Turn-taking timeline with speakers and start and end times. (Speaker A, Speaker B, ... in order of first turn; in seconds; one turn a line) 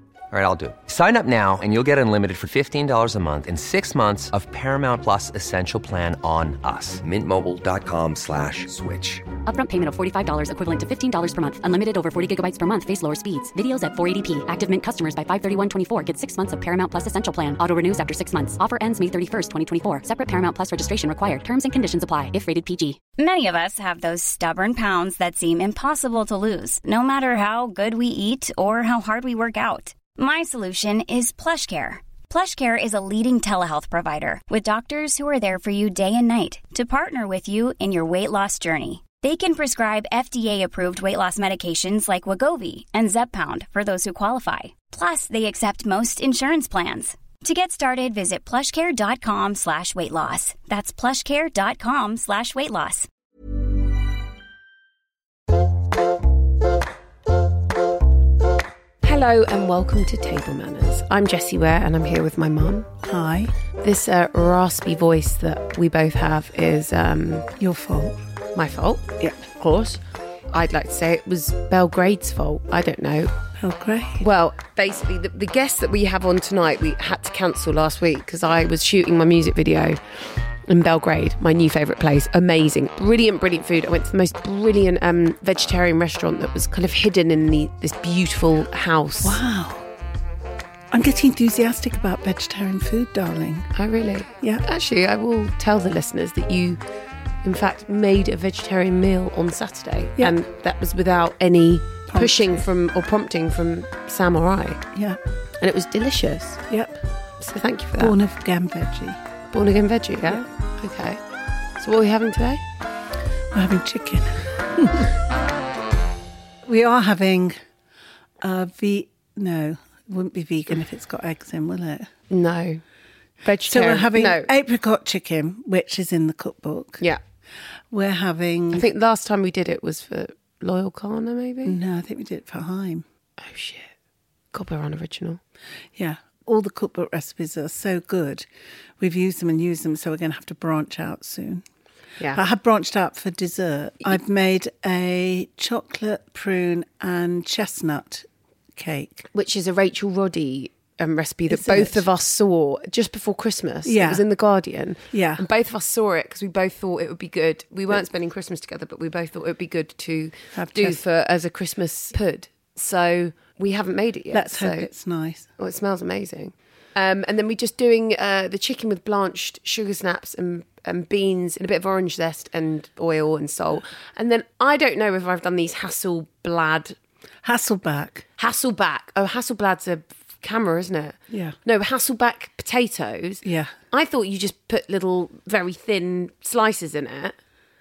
Speaker A: 0.3-9.3
Speaker B: 9.3-23.0
Speaker C: 23.2-53.1
Speaker D: 59.0-62.9
Speaker E: 63.0-63.5
Speaker D: 63.8-67.5
Speaker E: 67.6-68.2
Speaker D: 68.5-73.3
Speaker E: 73.6-74.3
Speaker D: 74.2-89.4
Speaker E: 89.2-89.9
Speaker E: 90.9-93.7
Speaker D: 93.7-96.8
Speaker E: 94.4-94.7
Speaker D: 97.4-104.8
Speaker E: 102.1-102.6
Speaker E: 104.9-105.2
Speaker D: 105.6-106.6
Speaker E: 106.7-107.0
Speaker D: 107.4-108.2
Speaker E: 108.0-109.2
Speaker D: 109.5-111.2
Speaker D: 111.8-112.6
Speaker E: 113.5-115.1
Speaker E: 116.7-117.6
Speaker E: 118.4-122.1
Speaker D: 122.3-122.8
Speaker D: 123.4-124.5
Speaker E: 123.7-127.0
Speaker E: 127.9-128.9
Speaker D: 128.7-131.8
Speaker E: 131.7-133.1
Speaker D: 133.4-133.9
Speaker D: 134.5-135.4
Speaker E: 135.9-138.5
Speaker E: 139.0-141.6
Speaker D: 142.2-142.4
Speaker E: 142.3-149.2
Speaker D: 149.3-164.9
Speaker E: 151.5-152.1
Speaker E: 153.8-154.2
Speaker E: 155.1-155.4
Speaker E: 160.5-161.0
Speaker E: 164.3-165.5
Speaker D: 165.6-177.0
Speaker E: 177.4-178.2
Speaker D: 178.4-187.4
Speaker E: 181.3-181.6
Speaker E: 183.4-183.7